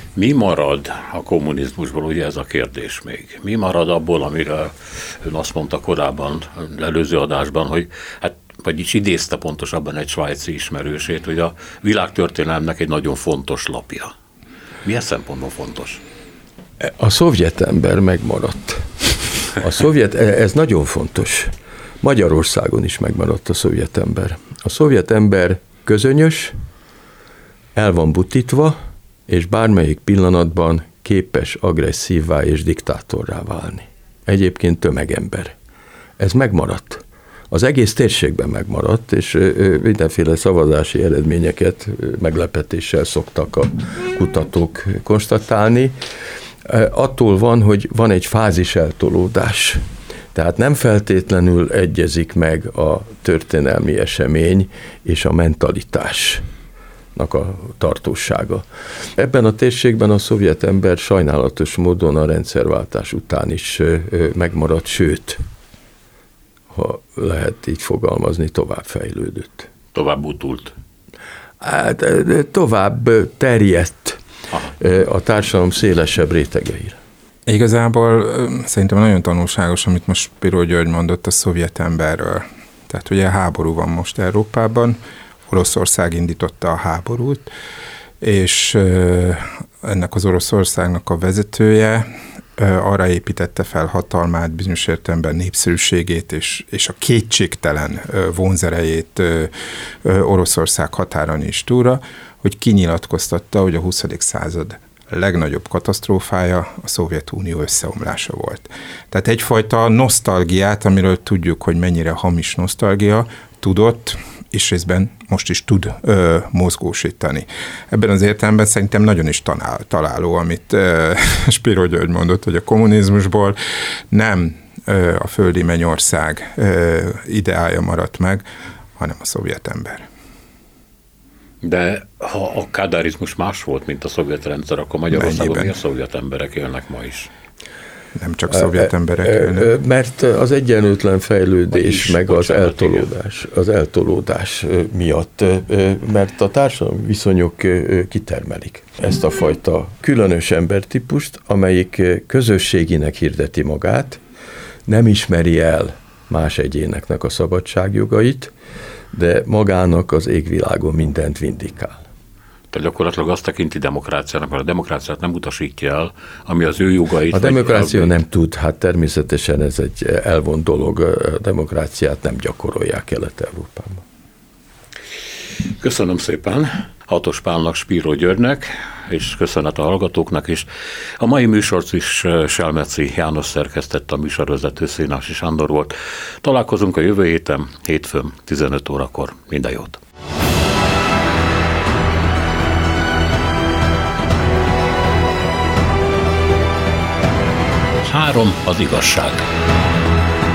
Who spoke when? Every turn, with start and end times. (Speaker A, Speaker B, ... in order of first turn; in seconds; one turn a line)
Speaker A: 0.1-14.1
Speaker A: 14.8-16.0
Speaker B: 16.8-18.9
Speaker B: 19.5-26.6
Speaker B: 27.8-35.5
Speaker B: 36.2-46.0
Speaker B: 46.6-49.8
Speaker B: 50.3-56.4
Speaker B: 57.1-58.6
Speaker B: 59.1-65.4
Speaker B: 66.7-69.7
Speaker A: 69.9-70.7
Speaker B: 71.6-74.2
Speaker B: 74.8-77.0
Speaker C: 77.5-87.5
Speaker C: 88.2-99.5
Speaker C: 100.0-123.6
Speaker C: 124.1-128.4
Speaker C: 129.0-130.1
Speaker A: 131.6-137.3
Speaker C: 135.1-135.7
Speaker C: 138.2-139.7
Speaker B: 138.5-154.2
Speaker A: 141.7-143.1
Speaker B: 154.9-158.5
Speaker B: 159.1-162.0
Speaker A: 162.7-168.2
Speaker B: 167.3-174.0
Speaker A: 175.8-180.7
Speaker A: 181.2-190.0
Speaker A: 198.0-199.5